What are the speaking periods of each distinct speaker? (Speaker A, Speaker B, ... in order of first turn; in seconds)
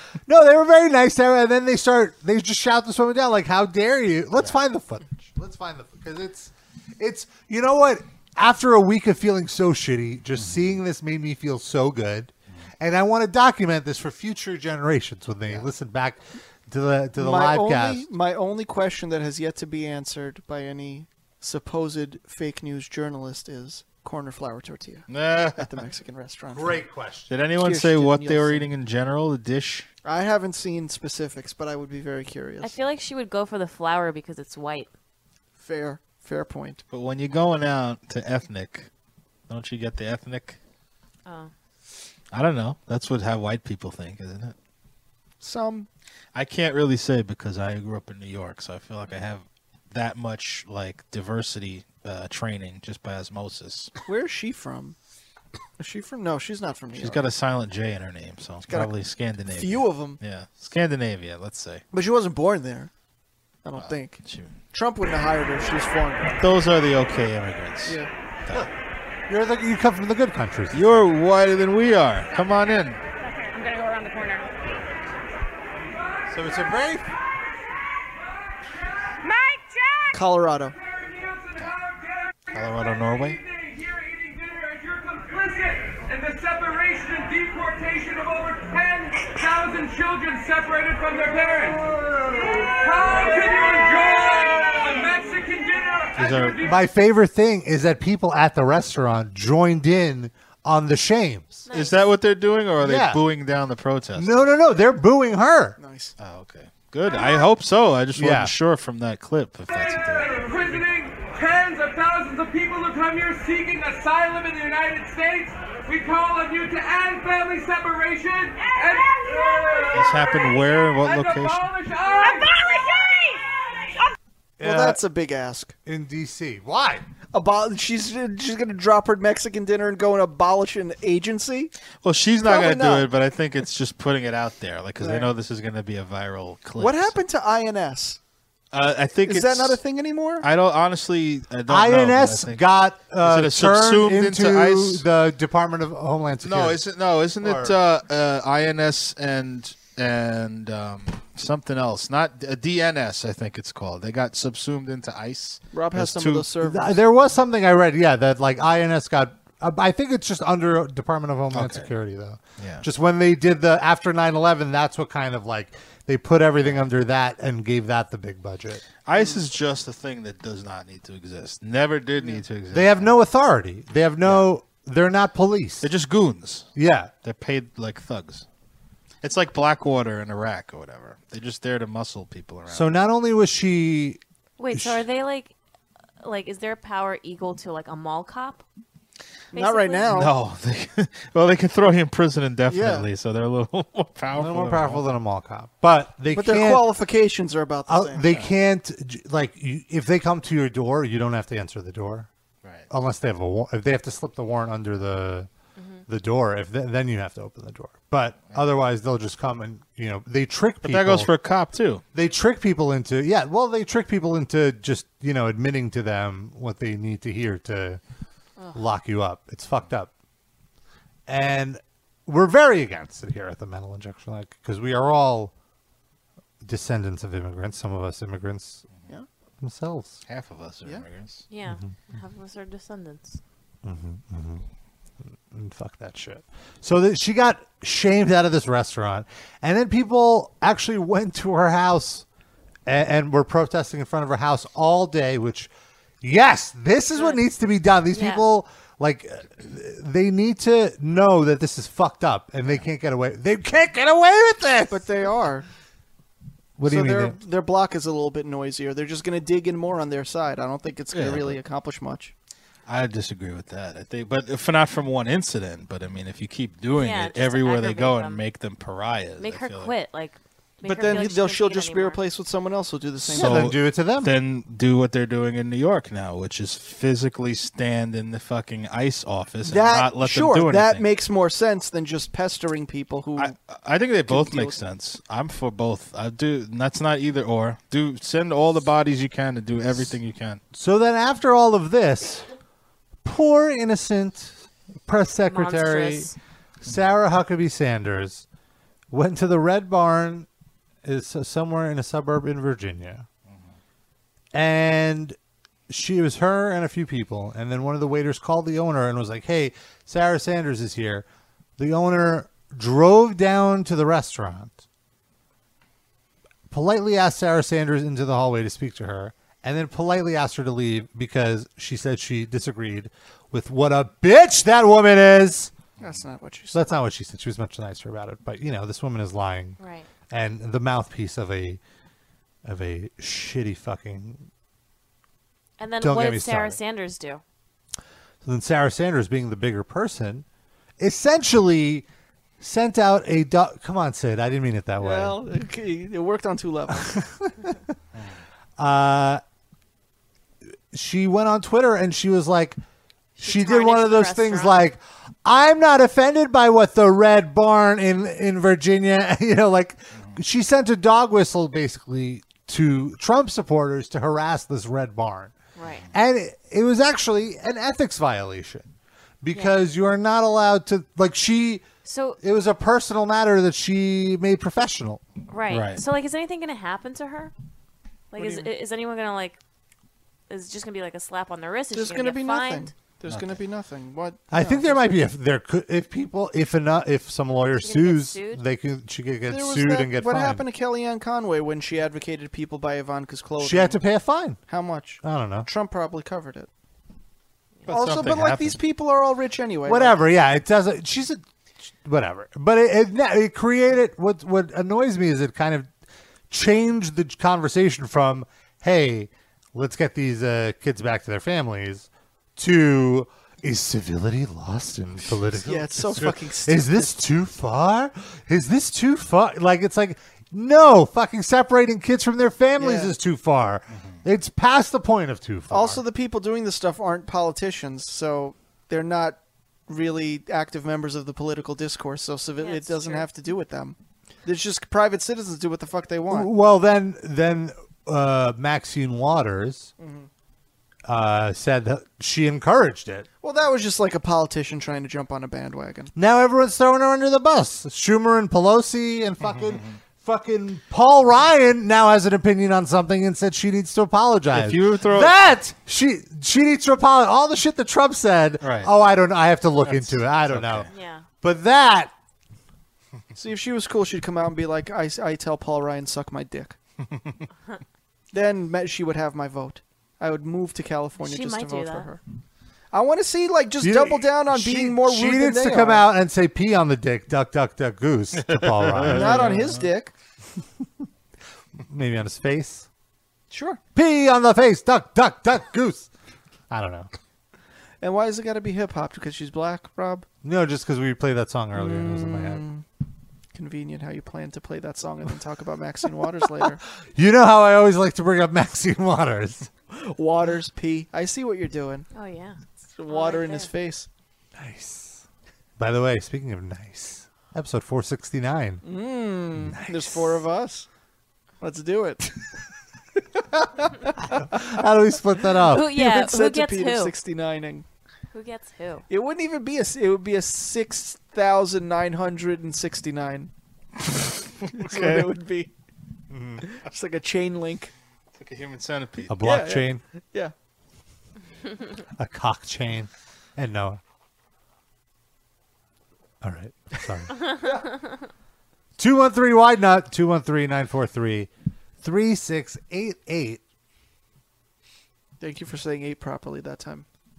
Speaker A: 0.2-18.1, 26.5-27.3, 69.3-70.9, 76.3-77.1, 96.6-101.7, 102.8-103.2, 104.2-105.8, 108.2-108.5, 124.6-125.0, 125.8-127.1, 141.7-146.8, 147.4-147.8, 156.6-168.8, 172.7-175.9, 176.8-177.1, 182.7-184.2, 184.7-185.0, 194.3-196.9, 197.9-202.3, 202.9-205.5, 206.1-211.3, 212.1-218.0, 218.7-220.1, 221.3-225.5, 226.6-228.9, 229.6-230.2, 233.8-234.7, 235.2-242.3, 242.9-255.0, 256.8-257.4, 273.3-274.3, 290.7-292.5, 293.2-296.3, 296.8-298.5, 299.1-300.5, 301.0-303.3, 304.5-305.4, 305.9-311.3, 311.8-314.8, 316.7-325.7, 326.7-329.8, 330.3-331.8, 332.6-334.5, 336.0-336.8, 338.4-340.4, 341.0-342.1, 342.6-345.4, 346.9-347.8, 348.8-349.4, 350.9-352.8, 353.4-365.5, 366.1-371.8, 372.4-375.2, 384.5-390.6, 393.6-394.6, 395.2-395.7, 399.9-401.4, 402.0-405.9, 406.5-426.0, 436.3-439.9, 441.1-443.3, 446.1-460.9, 461.4-462.1, 473.8-479.5, 481.9-482.9, 483.9-486.1, 486.7-487.1, 490.4-492.6, 497.1-499.7, 504.6-505.2, 505.8-508.9, 509.6-510.4, 514.3-516.0, 526.3-526.6, 529.3-530.0, 532.2-534.0, 536.4-537.6, 539.0-541.5, 542.0-543.6
Speaker B: 10.4-10.8, 25.1-25.7, 27.3-29.9, 36.9-38.9, 39.5-40.6, 42.3-44.5, 46.4-53.9, 57.0-61.8, 63.8-64.6, 66.4-68.7, 70.7-73.0, 82.5-83.4, 96.2-96.6, 101.7-104.5, 106.2-110.8, 119.9-121.7, 132.0-137.2, 138.7-139.8, 140.4-142.6, 143.2-145.0, 146.4-156.5, 161.5-161.9, 162.6-162.9, 166.6-166.9, 169.0-173.2, 174.2-174.5, 175.8-176.7, 177.2-178.5, 179.2-182.9, 190.1-195.1, 210.8-212.0, 228.9-229.2, 230.3-231.4, 261.1-261.6, 262.9-269.9, 273.3-281.1, 283.4-290.6, 303.5-303.8, 375.7-376.0, 383.3-383.6, 397.9-398.8, 423.9-424.2, 449.4-449.9, 454.5-455.3, 458.6-458.9, 459.8-460.9, 467.1-467.4, 478.5-479.8, 524.8-525.3, 528.4-529.4
Speaker C: 17.2-25.1, 25.6-26.8, 27.6-28.7, 30.1-32.8, 35.6-36.8, 45.4-45.9, 54.1-55.0, 55.8-57.2, 58.7-58.9, 59.5-60.2, 61.9-62.9, 63.6-66.3, 80.1-80.8, 105.8-106.1, 124.6-125.7, 127.3-131.7, 132.4-133.1, 135.0-135.3, 136.8-138.2, 139.3-140.5, 155.7-157.0, 169.1-169.4, 189.5-190.3, 192.7-193.1, 196.3-198.3, 254.9-255.7, 256.9-262.3, 270.8-273.7, 279.6-283.6, 284.3-284.8, 326.0-326.8, 345.0-347.2, 378.4-378.7, 381.9-385.0, 389.5-394.0, 394.7-396.7, 397.9-400.2, 415.6-417.1, 422.8-423.1, 425.7-436.5, 440.0-440.3, 443.4-446.1, 463.4-466.8, 468.3-472.2, 472.9-476.1, 479.0-480.1, 483.5-483.8, 488.0-490.3, 491.8-492.8, 493.5-496.8, 500.0-502.1, 502.9-504.1, 508.8-510.9, 511.6-512.3, 513.8-514.4, 515.8-517.9, 519.1-523.5, 524.8-525.7, 526.6-527.9, 529.4-530.5, 545.4-547.1
Speaker D: 32.6-34.9, 41.3-41.5, 101.7-102.1, 184.6-185.5, 186.2-188.6, 189.5-190.1, 205.8-206.1, 218.6-218.9, 231.5-233.4, 247.2-247.4, 248.1-248.5, 267.0-268.4, 269.4-272.2, 295.5-296.4, 329.8-330.1, 335.8-337.4, 353.4-354.9, 365.8-366.1, 372.0-372.4, 375.5-377.5, 378.3-379.6, 380.5-382.9, 387.8-388.6, 432.6-433.3, 460.9-461.3, 471.2-472.1, 502.1-503.7, 515.7-517.1, 518.3-519.1
Speaker E: 73.5-74.4, 80.8-96.8, 109.7-123.3